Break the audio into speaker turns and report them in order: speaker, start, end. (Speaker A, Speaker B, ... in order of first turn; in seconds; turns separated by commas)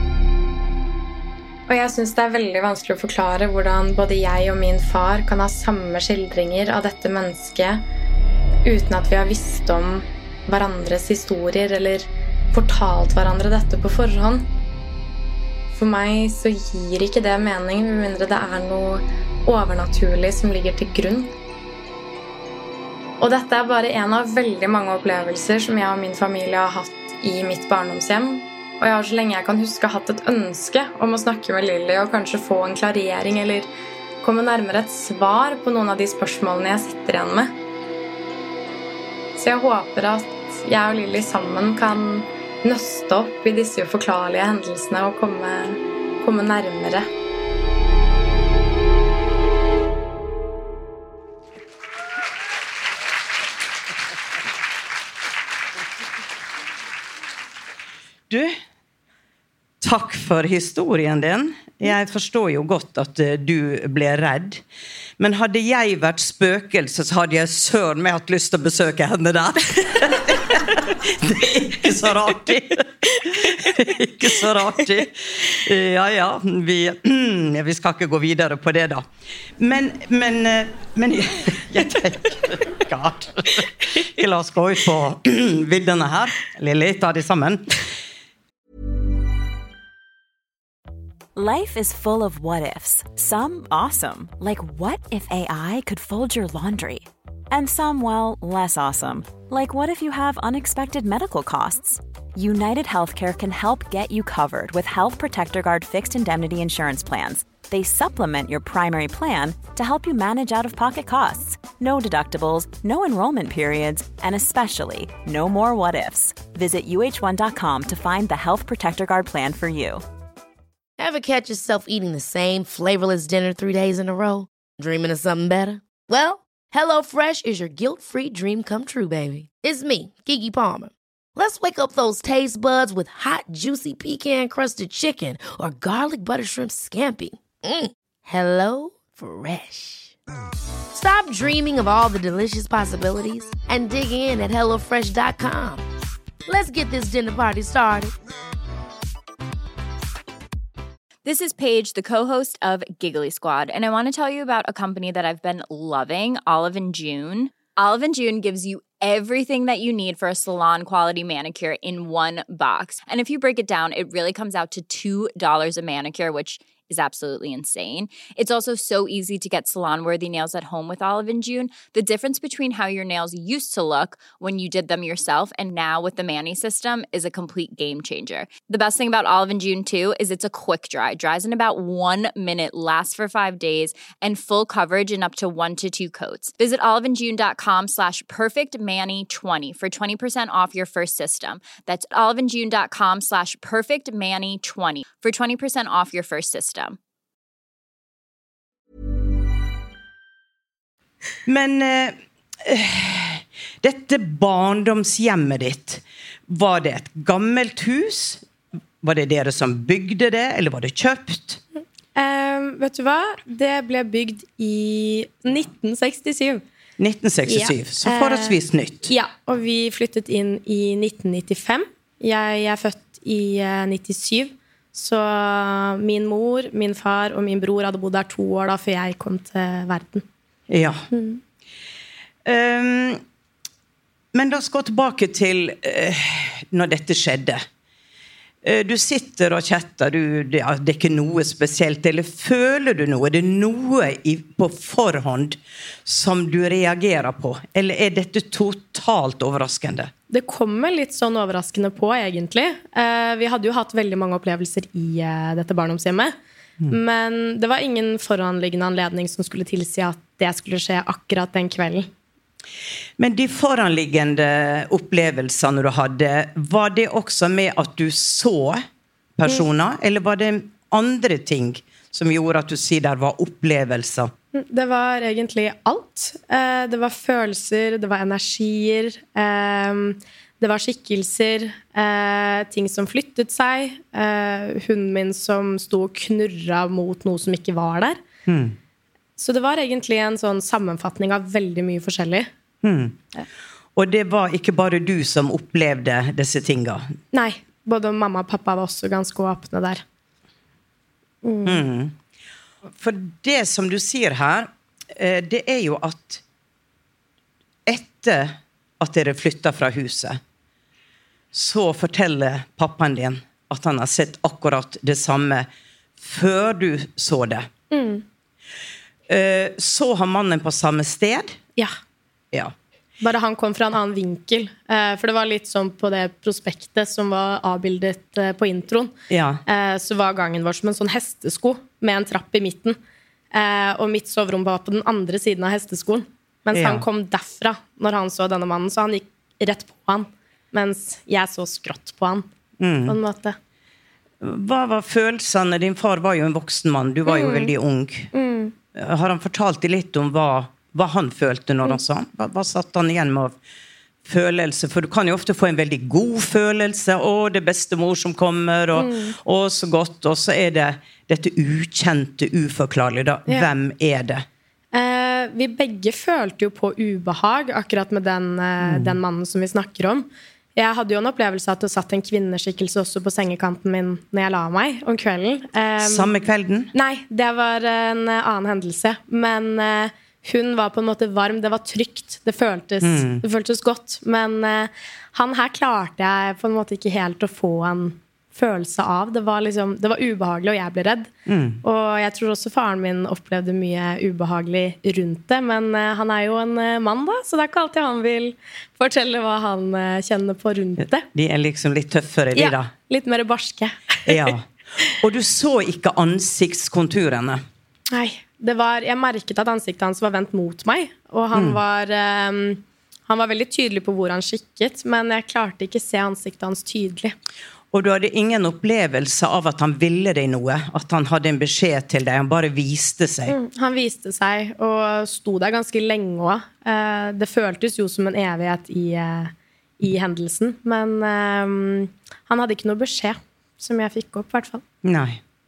Speaker A: 1.7-7.8, Speaker A: 8.7-14.5, Speaker A: 15.7-21.3, Speaker A: 23.2-33.7, Speaker A: 34.2-37.5, Speaker A: 39.4-47.1, Speaker B: 58.3-58.5, Speaker B: 59.8-64.6, Speaker B: 65.2-79.1, Speaker B: 79.6-87.8, Speaker C: 91.3-120.0, Speaker D: 121.0-140.2, Speaker D: 140.9-145.8, Speaker D: 146.5-148.1, Speaker E: 151.2-197.0, Speaker B: 201.5-208.4, Speaker B: 209.0-211.6, Speaker F: 212.2-216.6, Speaker B: 217.0-219.1, Speaker F: 217.5-230.2, Speaker B: 230.7-231.1, Speaker F: 231.1-231.4, Speaker B: 232.4-233.2, Speaker B: 234.3-237.6, Speaker B: 238.6-250.1, Speaker F: 250.3-256.3, Speaker F: 256.9-262.1, Speaker B: 263.2-268.9, Speaker B: 269.4-274.3, Speaker F: 274.5-288.2, Speaker B: 288.5-288.8, Speaker F: 289.4-292.5, Speaker B: 292.8-293.2, Speaker B: 293.9-297.1, Speaker F: 297.3-300.0, Speaker F: 301.4-301.9, Speaker B: 301.6-302.1, Speaker B: 302.9-306.4, Speaker B: 307.9-310.4, Speaker B: 311.5-315.7, Speaker B: 316.2-317.7, Speaker F: 317.9-318.2, Speaker B: 319.3-321.6, Speaker F: 323.2-329.1, Speaker B: 329.3-329.6, Speaker F: 329.7-333.0, Speaker F: 333.5-342.5, Speaker B: 336.7-337.0, Speaker B: 342.8-343.2, Speaker F: 343.1-343.6, Speaker B: 344.4-348.3, Speaker F: 347.3-347.7, Speaker F: 348.3-348.7, Speaker B: 348.9-353.6, Speaker B: 354.2-364.5, Speaker F: 358.9-359.4, Speaker F: 364.9-376.3, Speaker B: 368.8-369.2, Speaker B: 376.0-376.9, Speaker F: 376.9-391.3, Speaker B: 383.0-383.4, Speaker B: 391.5-391.8, Speaker F: 391.8-401.2, Speaker B: 401.3-402.9, Speaker F: 402.6-404.5, Speaker B: 404.3-407.6, Speaker F: 408.1-417.4, Speaker B: 411.5-411.8, Speaker B: 417.9-423.6, Speaker F: 423.5-434.8, Speaker B: 435.0-435.4